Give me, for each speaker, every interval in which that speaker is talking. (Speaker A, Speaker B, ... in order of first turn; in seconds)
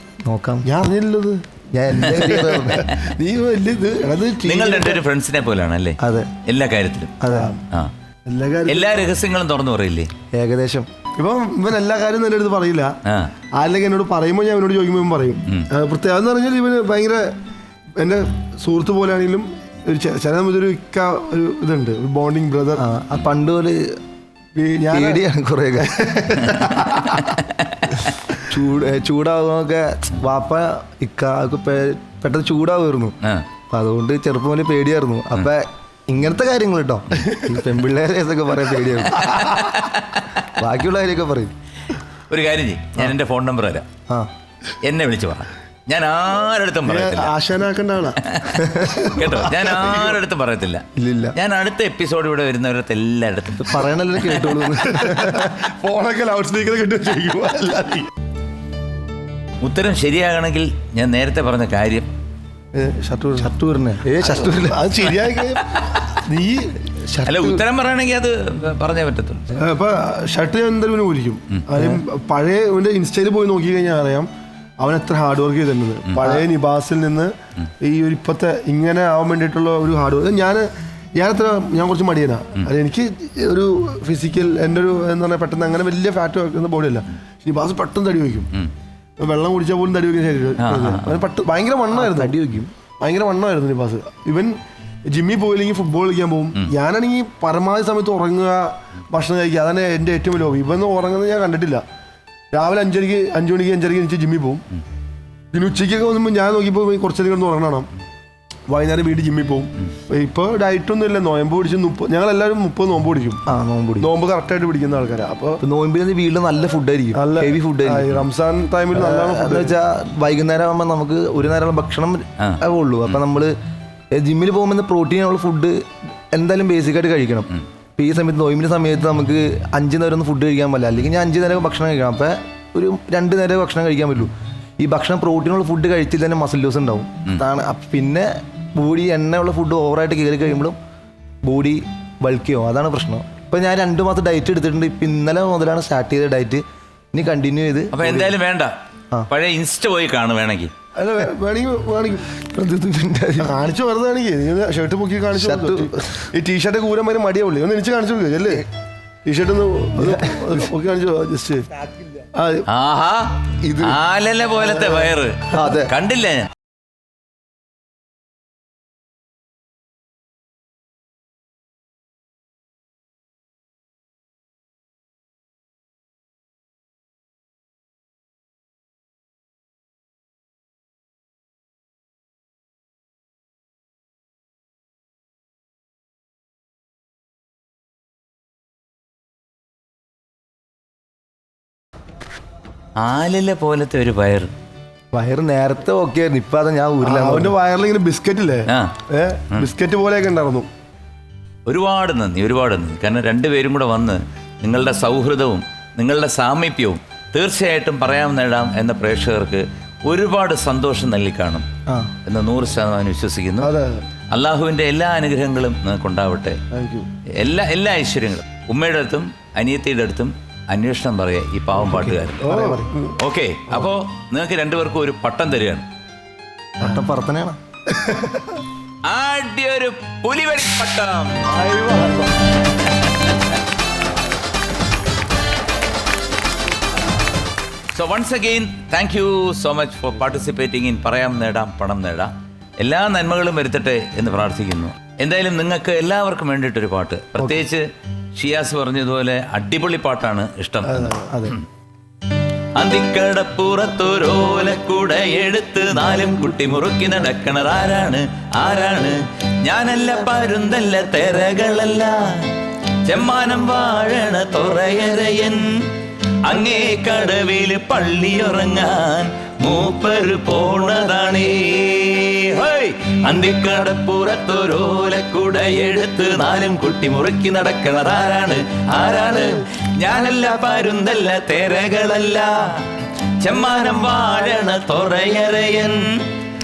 Speaker A: 0.2-0.7, 1.7-2.9, 6.0-6.3, 7.2-7.5, 10.3-10.9, 22.8-24.0, 24.9-26.2, 28.4-33.2, 33.7-39.4, 40.4-41.5, 48.6-49.0, 51.0-51.4, 53.6-55.4, 63.4-64.9, 67.0-67.6, 91.9-92.7, 113.5-114.1, 115.6-118.2, 118.9-123.5, 124.1-140.8, 141.4-148.4, 152.3-153.5, 155.3-156.2, 160.0-160.6, 163.6-164.0, 165.5-165.9, 195.1-197.5, 221.8-222.9, 226.8-227.6
Speaker B: 0.6-5.0, 7.3-7.6, 8.3-9.0, 11.2-13.0, 13.5-17.3, 18.0-22.8, 24.5-25.2, 25.8-27.3, 37.2-37.5, 39.2-39.6, 46.9-48.2, 48.7-50.2, 54.7-58.1, 62.8-63.5, 64.2-66.8, 69.6-74.3, 74.8-88.5, 89.2-92.4, 93.0-94.6, 95.1-101.8, 102.5-104.6, 105.5-107.9, 108.7-113.4, 114.0-115.6, 117.2-119.8, 151.0-152.3, 153.4-158.7, 159.2-161.7, 162.3-162.7, 197.0-200.7, 213.6-214.0, 216.7-217.1, 222.4-223.2, 227.9-228.6, 231.5-232.4, 250.9-251.5
Speaker C: 4.4-7.2, 8.7-10.1, 13.0-13.3, 27.1-28.1, 39.1-40.5, 42.3-43.8, 44.8-47.3, 48.3-54.5, 59.6-62.1, 65.6-66.2, 67.2-69.6, 90.6-91.2, 147.9-148.7, 149.3-150.7, 162.7-166.5, 193.0-194.5, 198.7-198.9, 201.7-211.7, 212.2-213.7, 214.3-216.6, 217.4-222.5, 223.2-225.8, 229.1-231.5, 232.8-233.5, 237.9-247.8, 248.4-251.7, 252.7-262.5, 263.1-265.7, 266.4-286.0